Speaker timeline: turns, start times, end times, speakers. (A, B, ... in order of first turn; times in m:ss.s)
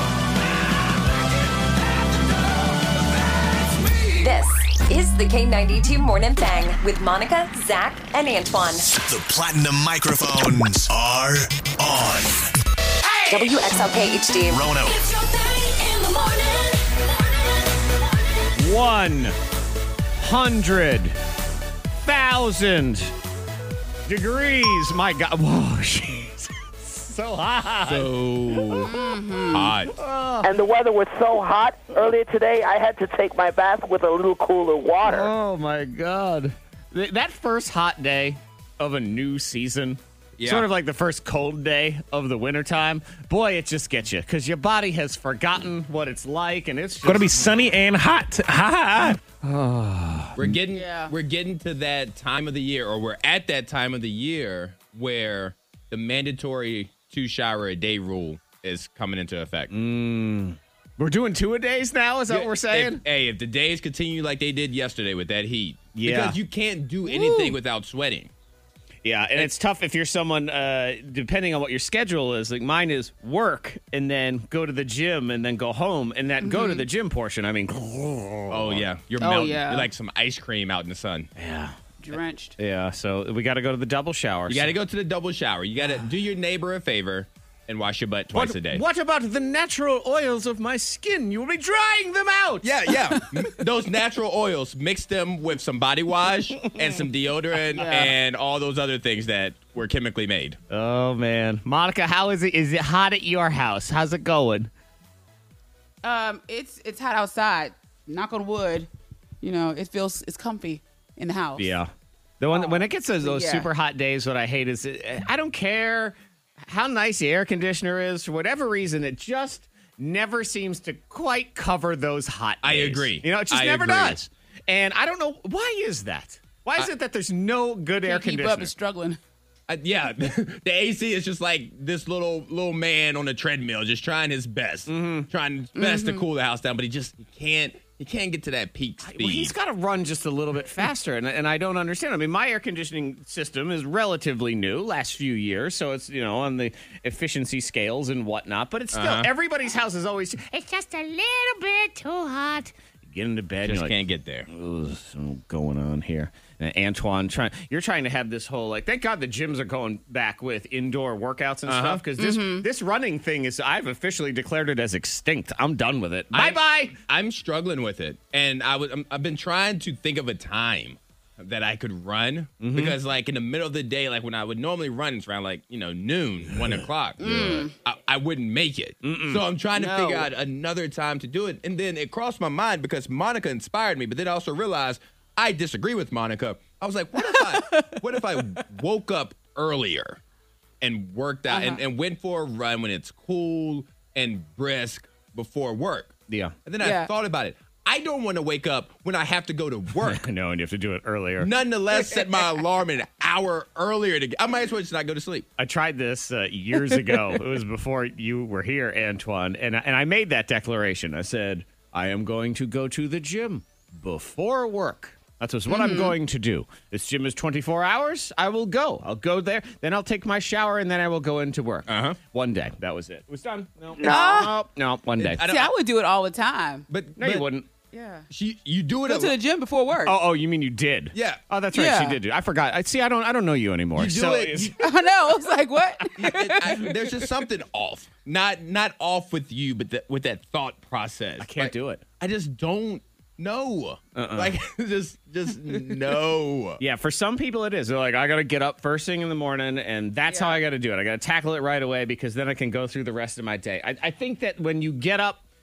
0:04.1-0:08.9 A
0:08.9-0:12.5 B
0:13.3-0:14.7 A
0:14.5-0:15.3 B
0:18.6-0:19.4 C
0:20.2-0:21.2 C
0:22.0-0:23.1 C
0:24.0-0:29.1 C
0:27.8-0:28.9 D
0:28.8-0:29.7 E
0:29.5-0:29.9 D
0:29.8-0:30.5 C
0:30.4-0:35.3 F
0:35.0-0:50.5 C
0:40.4-0:40.6 D
0:50.4-0:59.7 D
0:50.7-0:51.1 E
0:59.7-1:03.0 C
1:02.3-1:08.3 D
1:05.9-1:06.4 C
1:09.0-1:18.8 C
1:16.4-1:16.8 E
1:18.5-1:21.3 D
1:19.2-1:19.9 E
1:21.4-1:21.8 C
1:22.0-1:22.6 E
1:22.6-1:24.7 C
1:24.5-1:28.8 D
1:28.3-1:32.9 C
1:32.6-1:40.6 D
1:37.8-1:38.1 E
1:40.7-1:44.7 C
1:46.0-1:48.9 E
1:49.4-1:51.7 E
1:51.6-2:08.7 C
1:52.5-1:53.7 E
2:02.6-2:04.2 D
2:08.0-2:09.2 E
2:09.7-2:19.5 D
2:14.9-2:15.3 C
2:15.8-2:16.2 E
2:19.0-2:33.9 C
2:28.9-2:29.3 D
2:33.6-2:34.5 D
2:34.5-2:47.0 C
2:41.7-2:42.0 D
2:42.2-2:42.6 E
2:46.3-3:10.2 D
2:52.6-2:53.0 C
2:56.5-2:57.6 C
2:57.2-2:57.7 E
2:59.0-3:00.3 C
3:07.3-3:08.0 E
3:10.8-3:20.2 D
3:11.5-3:11.8 E
3:16.3-3:16.5 C
3:16.8-3:17.1 E
3:20.0-3:21.5 C
3:21.4-3:25.5 D
3:25.6-3:45.4 C
3:35.7-3:36.2 E
3:41.9-3:42.2 D
3:44.0-3:44.5 E
3:45.2-3:45.7 D
3:45.4-3:46.8 E
3:46.9-3:47.5 D
3:47.2-3:47.7 C
3:47.9-3:48.2 E
3:48.3-3:49.3 D
3:49.1-3:50.2 E
3:50.0-3:54.7 C
3:51.1-3:51.4 D
3:51.7-3:52.2 E
3:54.0-3:54.8 D
3:54.8-3:57.2 E
3:56.2-4:06.8 D
4:01.4-4:02.0 C
4:04.1-4:04.6 C
4:06.8-4:15.4 C
4:10.3-4:10.6 E